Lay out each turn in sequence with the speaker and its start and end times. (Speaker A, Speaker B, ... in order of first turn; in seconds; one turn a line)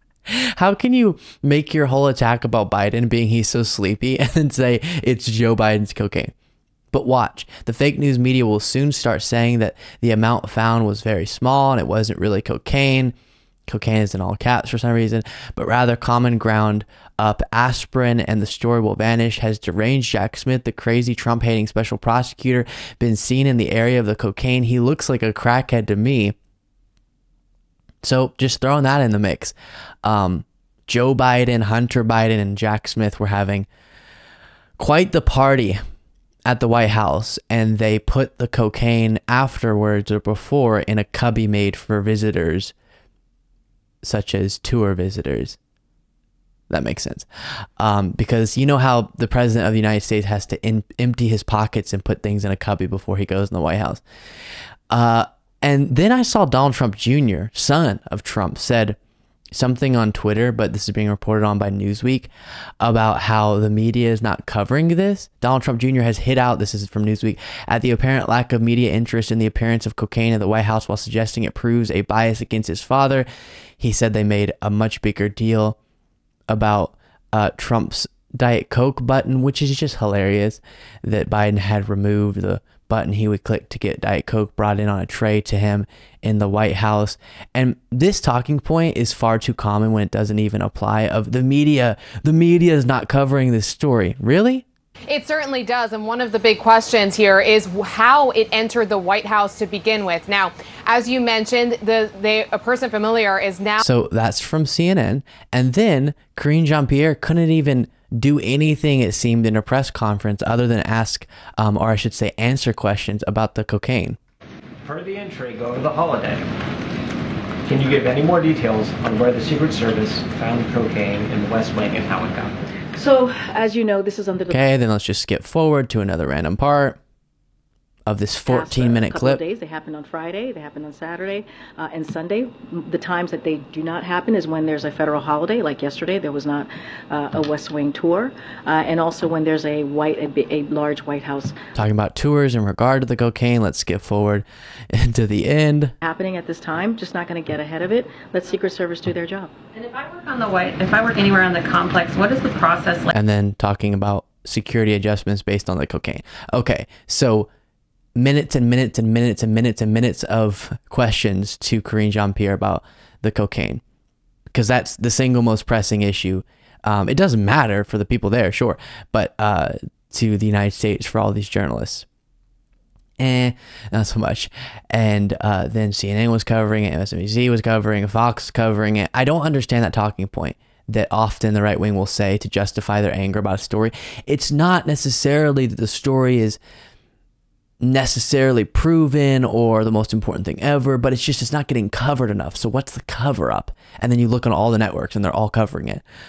Speaker A: 0.3-6.3
Speaker A: 6.9-13.1
Speaker A: 13.7-26.3
Speaker A: 28.0-33.7
Speaker A: 34.8-35.8
Speaker A: 36.5-42.7
Speaker A: 44.0-45.6
Speaker A: 46.7-47.3
Speaker A: 47.8-54.0
Speaker A: 54.9-59.0
Speaker A: 59.5-62.3
Speaker A: 62.8-73.3
Speaker A: 73.8-75.8
Speaker A: 76.5-94.7
Speaker B: 95.1-103.8
Speaker A: 103.8-114.2
Speaker C: 114.8-116.5
Speaker C: 117.6-122.6
Speaker D: 122.9-124.6
Speaker A: 124.5-127.0
Speaker A: 128.1-129.4
Speaker D: 128.5-141.6
Speaker A: 141.7-145.9
Speaker D: 146.0-149.5
Speaker E: 149.7-153.1
Speaker A: 153.1-157.5
Speaker A: 158.2-163.8
Speaker A: 164.5-172.1
Speaker A: 173.2-186.6
Speaker A: 187.8-196.0